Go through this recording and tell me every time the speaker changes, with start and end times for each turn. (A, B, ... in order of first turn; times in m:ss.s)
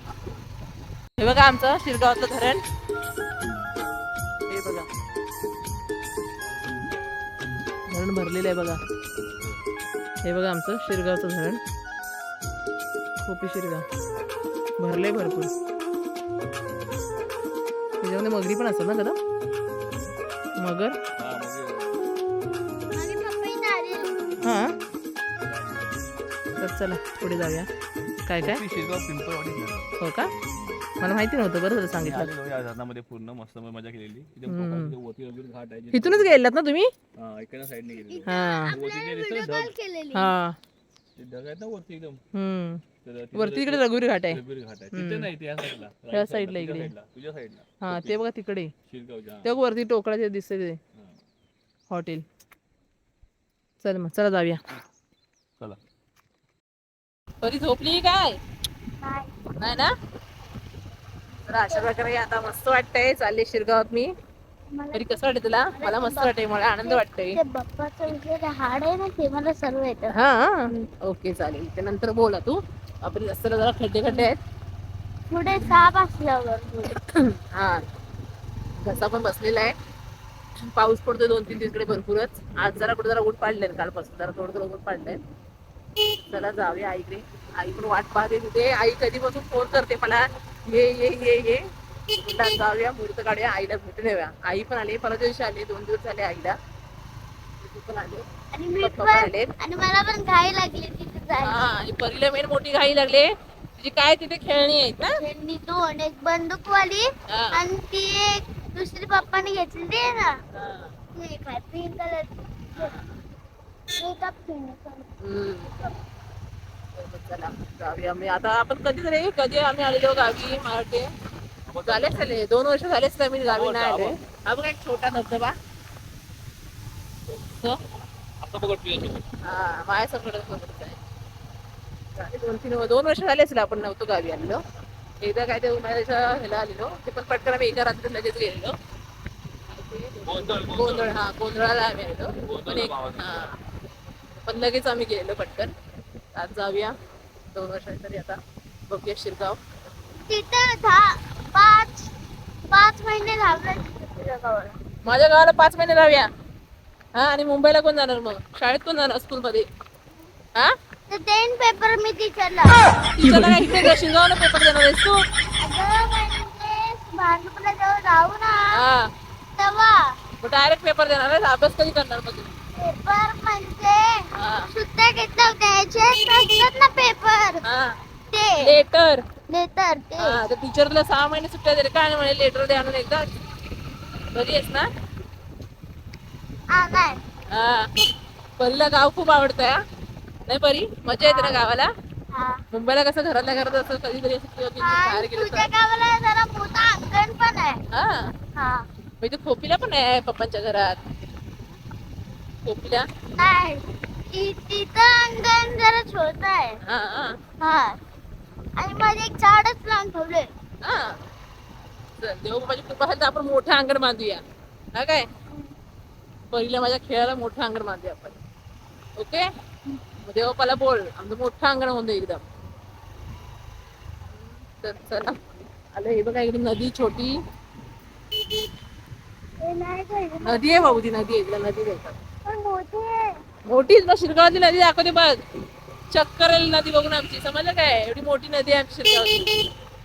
0:01.2-0:02.6 A
0:04.5-0:04.9 A
0:07.9-0:08.8 A
0:09.3-0:09.6 B
0:10.2-0:11.6 A
0:13.2-0:13.8 A
0:14.8-0:15.5 A
0:18.0-0:19.2 A
0:20.6-0:21.0 A
0:21.2-0:22.1 B
0:23.0-0:24.3 C
0:24.4-0:24.9 B
0:24.4-0:24.7 A
0:25.5-0:25.9 B
0:26.6-0:27.7 A
0:28.3-0:28.6 A
0:28.4-0:29.9 B
0:30.0-0:30.3 A
0:30.6-0:30.8 B
0:31.0-0:32.3 A
0:32.0-0:36.3 B
0:34.5-0:34.9 A
0:35.9-0:36.9 A
0:37.2-0:39.7 B
0:38.1-0:40.3 C
0:38.3-0:38.8 A
0:40.1-0:40.6 A
0:41.2-0:42.2 B
0:42.3-0:42.8 A
0:43.0-0:48.2 B
0:43.3-0:44.4 A
0:44.9-0:45.3 A
0:46.1-0:46.9 A
0:47.8-0:48.7 A
0:48.9-0:49.5 B
0:49.4-0:50.8 A
0:51.9-0:52.2 A
0:53.8-0:54.6 A
0:57.4-0:58.4 A
0:59.0-0:59.4 C
0:59.6-0:59.9 A
1:01.5-1:04.1 A
1:04.7-1:05.2 C
1:04.9-1:07.4 A
1:05.7-1:10.1 C
1:10.1-1:14.4 A
1:15.3-1:17.0 C
1:17.0-1:17.8 A
1:18.8-1:19.7 A
1:20.7-1:25.2 A
1:26.1-1:31.6 A
1:32.1-1:36.6 A
1:37.6-1:38.3 A
1:38.5-1:41.7 C
1:38.8-1:39.5 A
1:41.4-1:45.2 A
1:45.2-1:50.4 C
1:47.3-1:47.6 A
1:50.6-1:50.9 A
1:51.1-1:53.0 C
1:52.8-1:53.1 A
1:54.0-1:55.1 C
1:55.2-1:55.8 A
1:57.0-2:01.1 A
2:01.7-2:02.2 B
2:01.8-2:05.6 A
2:03.5-2:04.3 B
2:07.4-2:07.8 A
2:08.4-2:09.2 B
2:09.4-2:11.0 A
2:12.2-2:14.6 A
2:15.2-2:18.8 A
2:19.7-2:23.5 A
2:20.2-2:21.2 B
2:22.4-2:23.5 B
2:24.4-2:25.7 A
2:26.4-2:26.9 A
2:27.5-2:29.6 A
2:30.2-2:32.1 C
2:32.7-2:34.8 C
2:35.0-2:36.3 A
2:37.2-2:39.7 A
2:41.1-2:42.8 C
2:43.2-2:45.2 A
2:45.6-2:48.8 C
2:48.7-2:49.1 A
2:49.6-2:50.2 C
2:50.4-2:52.5 A
2:52.8-2:57.6 C
2:54.4-2:54.7 A
2:57.6-2:57.9 A
2:58.3-2:58.7 C
2:58.6-2:59.2 A
2:59.5-3:00.4 C
3:00.2-3:03.2 A
3:04.3-3:04.9 A
3:06.7-3:07.2 C
3:07.5-3:07.9 A
3:08.6-3:09.8 A
3:10.5-3:11.9 A
3:11.2-3:11.6 C
3:12.3-3:12.6 C
3:12.7-3:15.7 A
3:14.8-3:17.8 C
3:17.9-3:18.3 A
3:18.6-3:18.9 C
3:19.2-3:21.0 A
3:22.6-3:23.1 A
3:23.4-3:26.8 C
3:26.8-3:27.4 A
3:27.6-3:28.0 C
3:28.8-3:30.5 C
3:30.8-3:31.2 A
3:32.2-3:34.4 A
3:35.0-3:35.2 A
3:36.5-3:38.4 A
3:39.2-3:39.4 A
3:40.2-3:42.4 A
3:44.8-3:45.4 A
3:45.9-3:47.4 A
3:49.6-3:51.0 C
3:50.4-3:52.2 A
3:52.4-3:53.4 C
3:53.7-3:55.4 A
3:56.1-3:59.6 A